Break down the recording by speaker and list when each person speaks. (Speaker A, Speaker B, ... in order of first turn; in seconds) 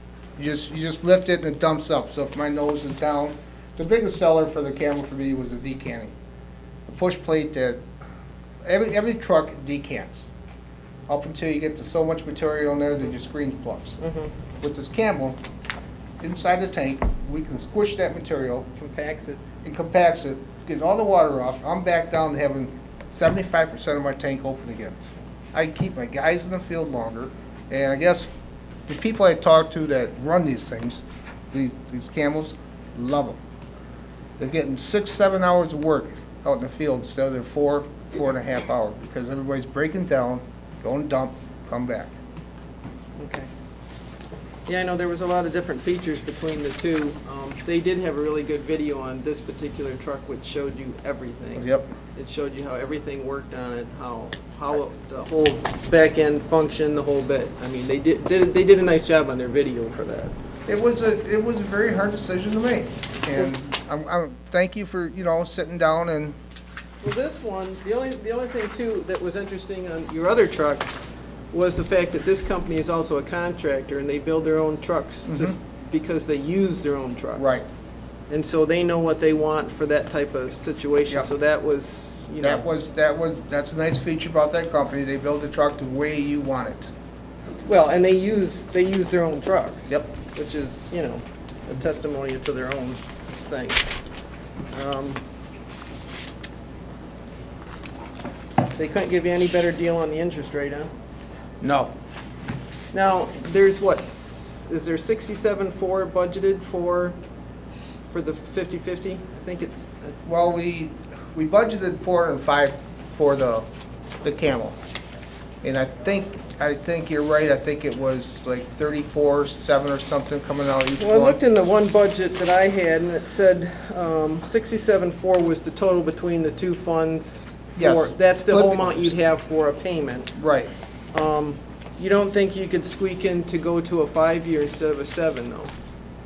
Speaker A: 0.4-6.1, 6.9-7.8, 8.6-10.3, 11.1-14.0, 14.6-15.4, 16.2-18.7, 19.6-24.9, 25.5-28.3, 28.9-33.4, 34.4-42.1, 51.5-51.9, 60.7-66.3, 75.3-75.5, 77.3-77.6, 82.4-86.9, 101.6-101.9, 110.2-113.7, 114.2-114.8, 115.6-121.4, 127.8-129.1, 130.3-130.7
Speaker B: 14.0-14.3, 18.8-19.4, 43.2-43.5, 44.6-60.3, 67.0-70.9, 71.5-77.6, 78.3-82.7, 87.6-93.8, 94.7-95.2, 98.8-100.9, 102.9-107.2, 108.1-110.1, 121.0-130.3, 131.1-135.7